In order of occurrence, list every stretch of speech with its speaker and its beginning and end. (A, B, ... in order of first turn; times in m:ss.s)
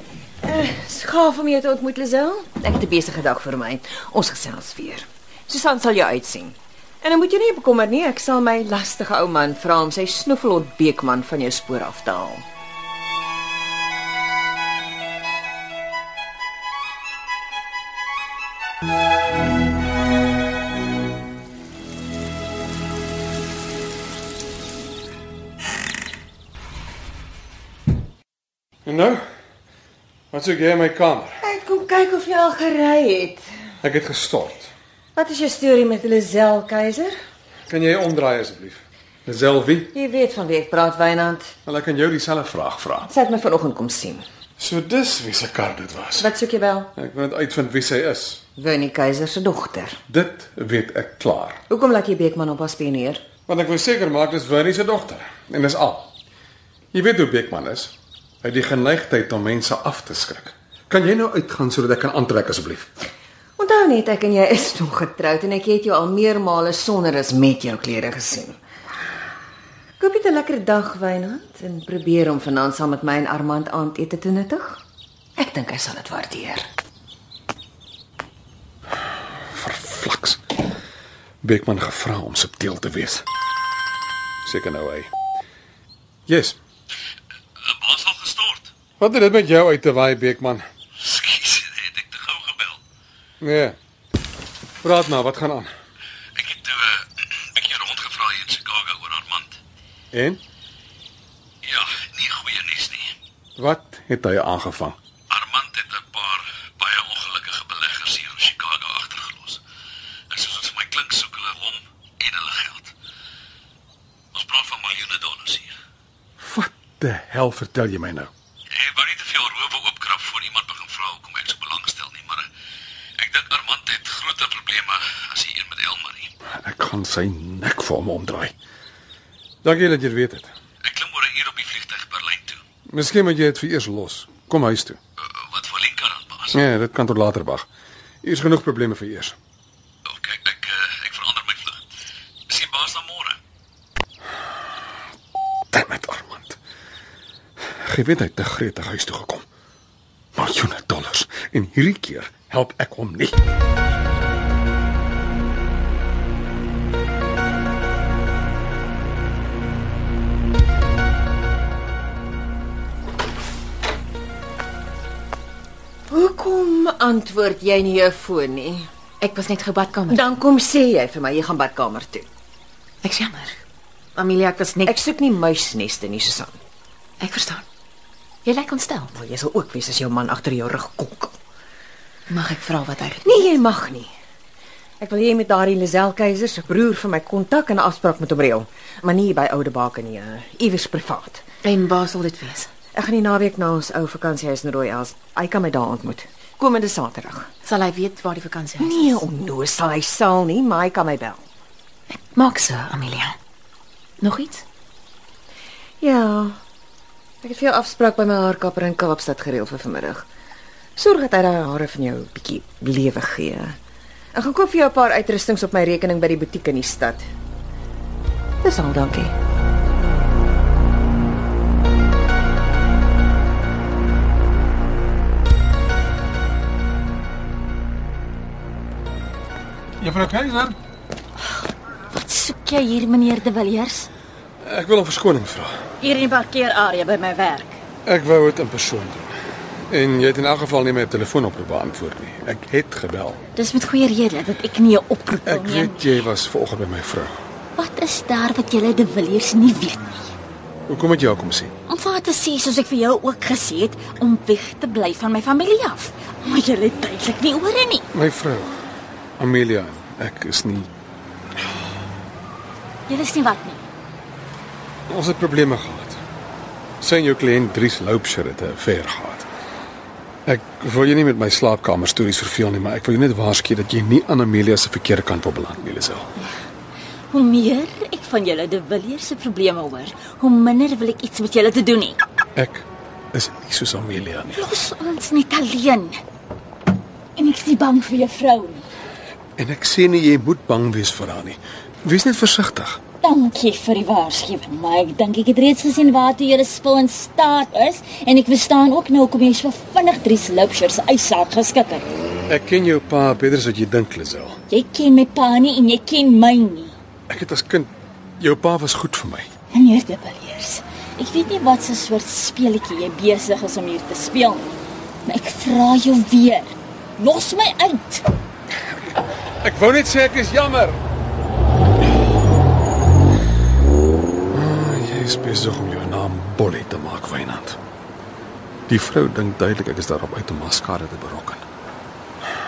0:00.4-0:12.4 A
0:28.8-0:29.2 B
0:30.3-0:31.4 B
0:31.4-0:33.5 A
0:33.8-0:34.7 B
0:35.2-0:37.1 A
0:37.7-0:39.9 B
0:39.9-0:41.5 A
0:41.7-0:43.1 B
0:43.1-0:44.2 A
0:44.6-0:46.3 B
0:46.2-0:46.9 A
0:47.0-0:48.4 B
0:48.6-0:50.0 A
0:50.1-0:51.6 B
0:51.7-0:53.2 A
0:53.5-0:56.1 B
0:56.9-0:57.9 B
0:58.4-1:02.9 B
1:03.6-1:08.6 A
1:10.0-1:14.8 A
1:15.4-1:16.7 A
1:19.5-1:20.4 B
1:21.4-1:23.2 B
1:24.4-1:25.1 B
1:26.3-1:26.6 B
1:27.6-1:28.7 C
1:29.0-1:30.6 B
1:31.0-1:32.8 C
1:33.4-1:33.8 B
1:34.8-1:35.7 B
1:36.4-1:39.5 C
1:40.1-1:40.4 B
1:41.6-1:43.1 C
1:43.6-1:45.0 B
1:45.3-1:49.6 C
1:50.3-1:52.9 C
1:54.3-1:55.7 C
1:56.4-1:58.3 B
1:58.7-2:02.5 C
2:03.2-2:06.3 C
2:06.6-2:08.5 B
2:09.6-2:10.5 B
2:10.8-2:12.6 C
2:12.9-2:15.0 B
2:15.5-2:16.6 C
2:16.5-2:17.7 B
2:18.2-2:19.4 B
2:20.1-2:21.8 C
2:22.5-2:23.4 C
2:25.7-2:26.6 B
2:27.8-2:29.4 B
2:30.4-2:33.4 B
2:46.1-2:48.9 A
2:49.2-2:50.3 D
2:50.1-2:52.3 A
2:53.0-2:53.6 D
2:54.2-2:55.0 D
2:54.8-2:56.6 A
2:57.2-2:57.6 D
2:58.4-2:59.1 D
2:59.2-3:01.4 A
3:02.3-3:03.5 D
3:03.2-3:04.1 A
3:05.0-3:11.4 A
3:11.6-3:12.7 D
3:12.9-3:17.5 A
3:17.6-3:19.2 D
3:18.8-3:21.4 A
3:22.1-3:23.4 D
3:24.2-3:24.6 D
3:26.0-3:26.6 A
3:27.4-3:30.3 A
3:31.0-3:33.8 A
3:34.3-3:37.3 A
3:38.6-3:39.4 A
3:50.0-3:50.8 B
3:51.4-3:54.1 E
3:54.6-3:55.7 B
3:56.0-3:57.8 E
3:58.0-3:59.3 B
3:59.9-4:03.4 B
4:03.6-4:06.1 E
4:05.5-4:07.4 B
4:07.8-4:10.3 E
4:10.9-4:11.7 B
4:11.9-4:18.1 E
4:18.1-4:18.8 B
4:19.4-4:20.9 B
4:23.1-4:23.8 E
4:25.1-4:26.2 B
4:27.0-4:29.5 B
4:30.5-4:36.3 B
4:37.3-4:42.2 E
4:42.6-4:44.7 B
4:44.5-4:46.2 E
4:47.4-4:48.9 E
4:49.6-4:53.0 B
4:53.2-5:02.0 E
5:02.5-5:04.6 B
5:04.7-5:06.9 E
5:07.3-5:09.5 B
5:09.7-5:14.7 E
5:15.3-5:18.2 E
5:19.6-5:21.0 B
5:24.5-5:27.8 B
5:28.9-5:31.6 B